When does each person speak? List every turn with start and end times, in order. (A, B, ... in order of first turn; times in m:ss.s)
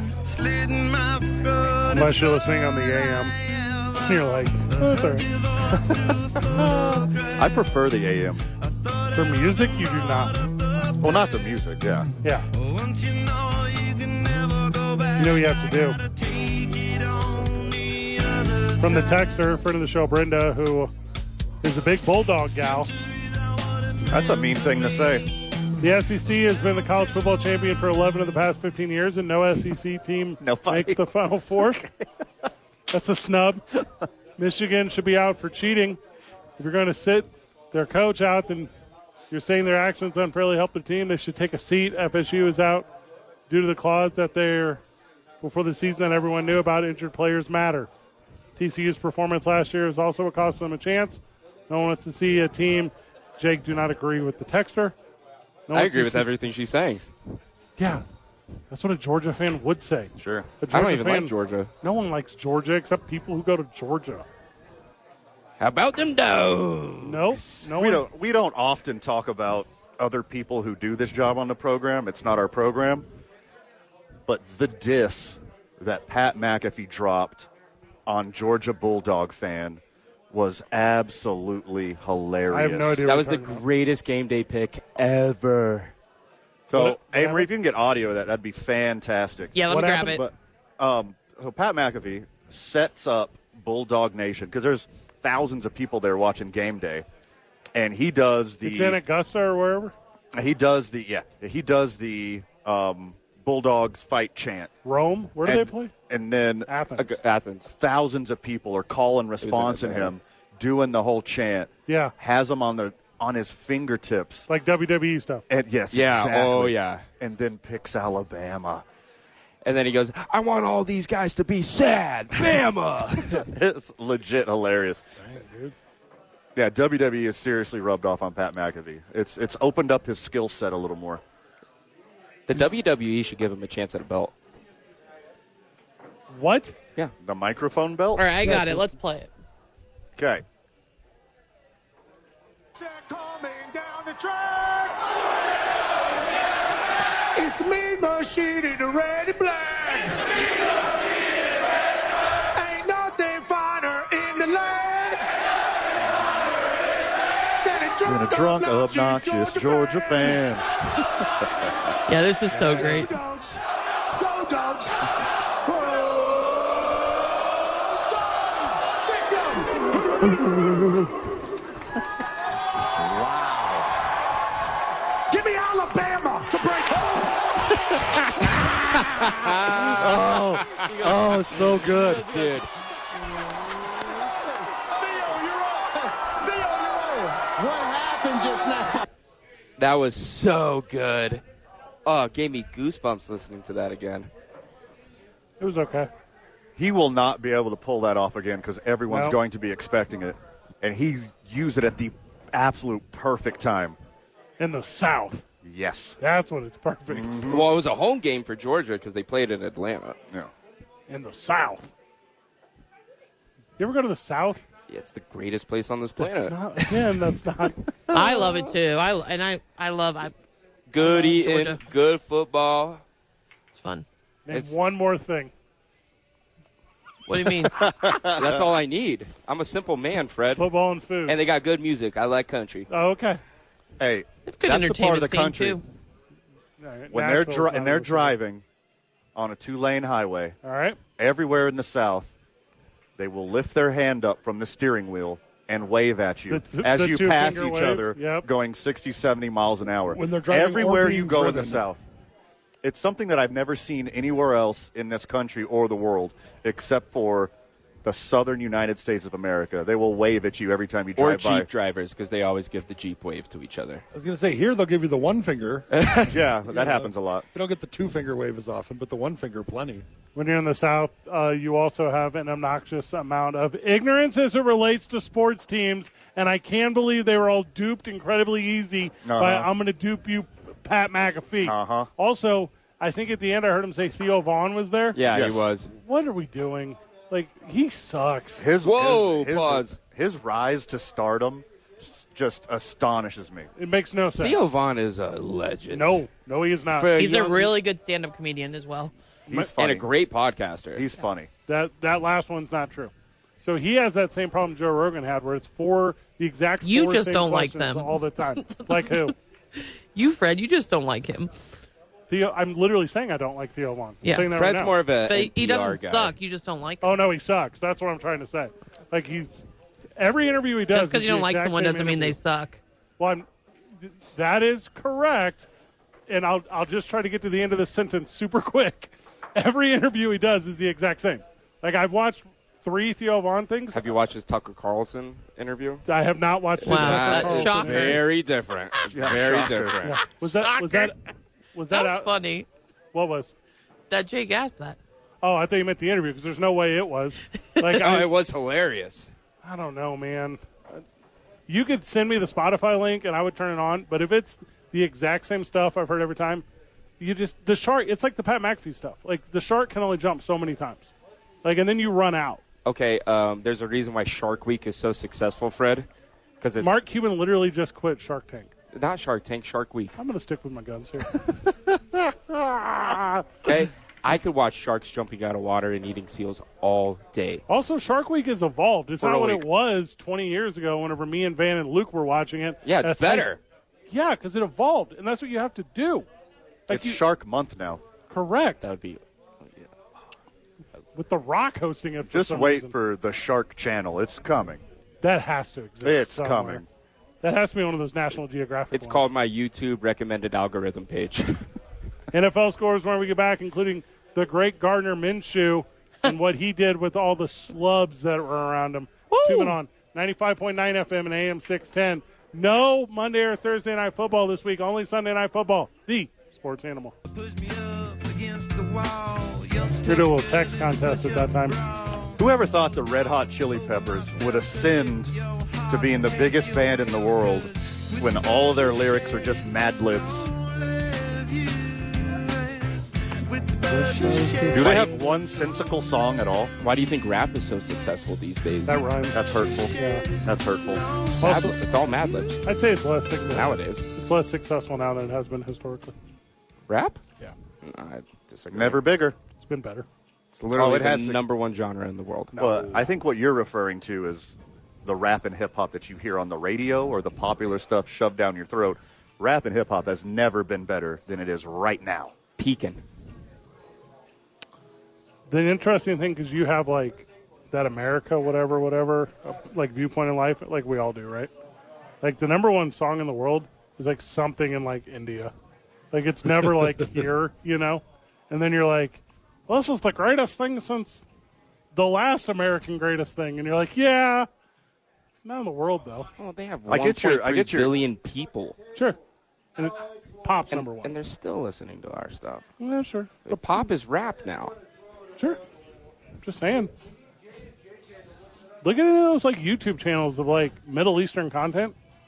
0:00.2-0:07.7 A
0:01.9-0:03.4 B
0:04.0-0:05.9 B
0:07.4-0:08.4 C
0:08.6-0:11.3 A
0:09.2-0:10.4 B
0:11.0-0:12.1 C
0:12.5-0:19.4 A
0:15.2-0:16.0 B
0:18.8-0:20.9 B
0:21.6-0:22.9 B
0:22.4-0:24.7 A
0:24.1-0:25.3 C
0:25.8-0:31.8 B
0:30.4-0:31.0 C
0:32.9-0:33.6 B
0:34.4-0:36.0 B
0:36.6-0:38.7 B
0:39.3-0:42.9 B
0:43.5-0:44.8 B
0:45.4-0:47.9 B
0:48.6-0:55.0 B
0:55.7-0:56.3 B
0:55.7-0:57.0 D
0:57.8-0:58.0 B
0:58.7-1:04.2 B
1:00.2-1:00.5 C
1:00.7-1:01.7 D
1:05.6-1:07.6 D
1:07.0-1:08.1 B
1:07.7-1:13.1 C
1:14.3-1:17.5 C
1:18.1-1:23.0 C
1:22.5-1:23.6 B
1:23.1-1:25.9 D
1:26.7-1:29.6 C
1:26.7-1:27.5 B
1:29.6-1:30.2 E
1:29.7-1:30.2 B
1:30.2-1:37.1 C
1:37.8-1:39.0 C
1:38.6-1:39.9 B
1:40.4-1:44.7 C
1:44.8-1:45.9 B
1:45.4-1:46.7 C
1:46.7-1:47.2 B
1:47.0-1:47.7 D
1:47.7-1:54.5 C
1:49.4-1:50.2 D
1:51.9-1:52.1 B
1:54.5-1:55.5 B
1:55.5-1:58.8 C
1:55.9-1:57.0 D
1:59.6-2:03.5 D
2:03.3-2:05.0 C
2:05.2-2:05.7 B
2:06.6-2:11.2 C
2:12.5-2:14.3 D
2:16.3-2:16.8 B
2:17.2-2:18.4 C
2:18.2-2:19.3 E
2:18.5-2:18.8 B
2:20.2-2:20.4 C
2:22.8-2:25.0 F
2:27.4-2:30.8 F
2:32.5-2:35.3 F
2:37.2-2:40.4 F
2:38.0-2:40.7 C
2:42.1-2:43.1 E
2:42.5-2:43.6 F
2:44.2-2:45.1 F
2:45.7-2:50.6 F
2:53.0-2:53.8 F
2:55.3-2:58.7 F
2:58.5-3:00.9 D
3:00.0-3:02.2 C
3:00.8-3:02.6 E
3:01.6-3:02.7 D
3:03.4-3:09.1 F
3:09.8-3:11.4 D
3:12.0-3:14.3 D
3:15.6-3:16.1 B
3:16.8-3:24.0 C
3:19.1-3:19.4 B
3:24.6-3:25.4 B
3:25.6-3:26.2 C
3:26.2-3:27.5 B
3:27.1-3:27.7 C
3:27.5-3:30.2 D
3:31.1-3:31.9 B
3:33.8-3:34.6 B
3:34.9-3:36.6 D
3:36.2-3:37.9 B
3:38.1-3:40.3 E
3:38.2-3:38.6 D
3:40.9-3:43.0 D
3:41.0-3:41.8 E
3:43.7-3:44.0 E
3:44.5-3:45.5 B
3:44.5-3:44.8 D
3:47.3-3:48.1 E
3:47.6-3:48.7 C
3:48.3-3:50.7 D
3:50.6-3:51.4 B
3:51.3-3:52.9 D
3:52.9-3:53.4 B
3:54.0-3:55.8 C
3:54.5-3:55.8 E
3:56.8-3:58.4 B
3:57.1-3:58.6 C
3:59.4-4:00.6 C
4:00.6-4:01.0 B
4:01.2-4:02.3 C
4:03.2-4:12.0 C
4:06.5-4:08.5 B
4:10.1-4:11.9 G
4:12.8-4:17.5 C
4:18.0-4:21.7 C
4:21.2-4:24.0 D
4:24.1-4:26.1 G
4:25.9-4:26.4 D
4:26.3-4:27.5 C
4:26.7-4:30.0 G
4:30.4-4:45.2 B
4:39.2-4:39.7 C
4:41.6-4:42.1 C
4:45.1-4:45.9 D
4:45.3-4:45.7 C
4:45.9-4:48.7 B
4:48.6-4:53.7 C
4:48.8-4:50.0 D
4:53.8-4:54.6 B
4:54.4-4:56.2 D
4:55.9-4:57.2 B
4:57.0-4:57.7 D
4:57.2-4:59.1 E
4:59.5-5:00.1 C
4:59.8-5:01.1 D
5:01.0-5:01.5 C
5:01.7-5:09.3 B
5:06.8-5:11.5 E
5:12.3-5:15.0 B
5:14.2-5:14.5 E
5:14.5-5:16.4 D
5:15.2-5:17.1 E
5:17.0-5:19.6 B
5:20.2-5:22.4 B
5:20.9-5:22.8 E
5:23.2-5:23.5 B
5:24.0-5:25.7 B
5:26.3-5:34.0 B
5:33.9-5:36.0 D
5:36.1-5:38.2 B
5:36.8-5:40.2 D
5:36.8-5:38.2 E
5:39.1-5:40.0 C
5:40.0-5:41.2 B
5:40.4-5:41.1 E
5:41.8-5:42.4 B
5:41.9-5:42.7 E
5:43.1-5:43.5 B
5:44.1-5:45.0 E
5:45.4-5:48.3 B
5:47.9-5:49.3 D
5:49.6-5:51.0 B
5:51.7-5:56.6 B
5:57.2-6:01.1 B
6:01.6-6:02.6 B
6:02.8-6:06.1 D
6:06.6-6:07.0 D
6:06.8-6:08.7 B
6:08.9-6:10.2 D
6:10.2-6:11.5 B
6:12.8-6:13.4 B
6:13.6-6:17.6 D
6:17.7-6:23.5 B
6:19.2-6:19.6 D
6:22.8-6:23.6 D
6:24.1-6:26.3 B
6:26.9-6:27.2 B
6:26.9-6:28.0 C
6:28.3-6:28.9 B
6:28.8-6:29.9 D
6:31.2-6:32.9 B
6:32.3-6:34.8 C
6:35.2-6:36.8 B
6:36.0-6:36.9 C
6:37.4-6:39.3 B
6:38.9-6:41.6 D
6:42.3-6:57.2 B
6:49.3-6:49.8 D
6:57.3-7:02.4 A
7:00.0-7:01.8 B
7:02.4-7:05.3 C
7:04.0-7:15.4 A
7:05.9-7:10.5 C
7:13.9-7:14.9 B
7:14.7-7:16.7 C
7:14.8-7:15.1 D
7:16.8-7:19.0 D
7:18.9-7:19.4 B
7:19.3-7:21.1 C
7:19.4-7:21.4 A
7:20.0-7:20.3 B
7:21.4-7:21.8 B
7:21.4-7:22.6 D
7:22.6-7:26.2 B
7:23.5-7:24.0 D
7:26.9-7:27.2 D
7:27.8-7:29.0 D
7:28.7-7:29.4 C
7:29.6-7:30.1 B
7:30.5-7:32.7 D
7:30.7-7:31.4 C
7:32.5-7:33.0 B
7:32.6-7:42.3 C
7:42.6-7:43.0 D
7:45.5-7:51.5 B
7:52.2-7:55.5 B
7:56.1-8:01.3 B
8:01.9-8:04.5 B
8:05.4-8:06.3 B
8:06.4-8:08.8 D
8:06.9-8:08.0 C
8:09.8-8:11.2 B
8:10.7-8:12.7 D
8:12.8-8:13.6 B
8:13.5-8:14.7 D
8:16.4-8:16.9 B
8:18.8-8:22.0 B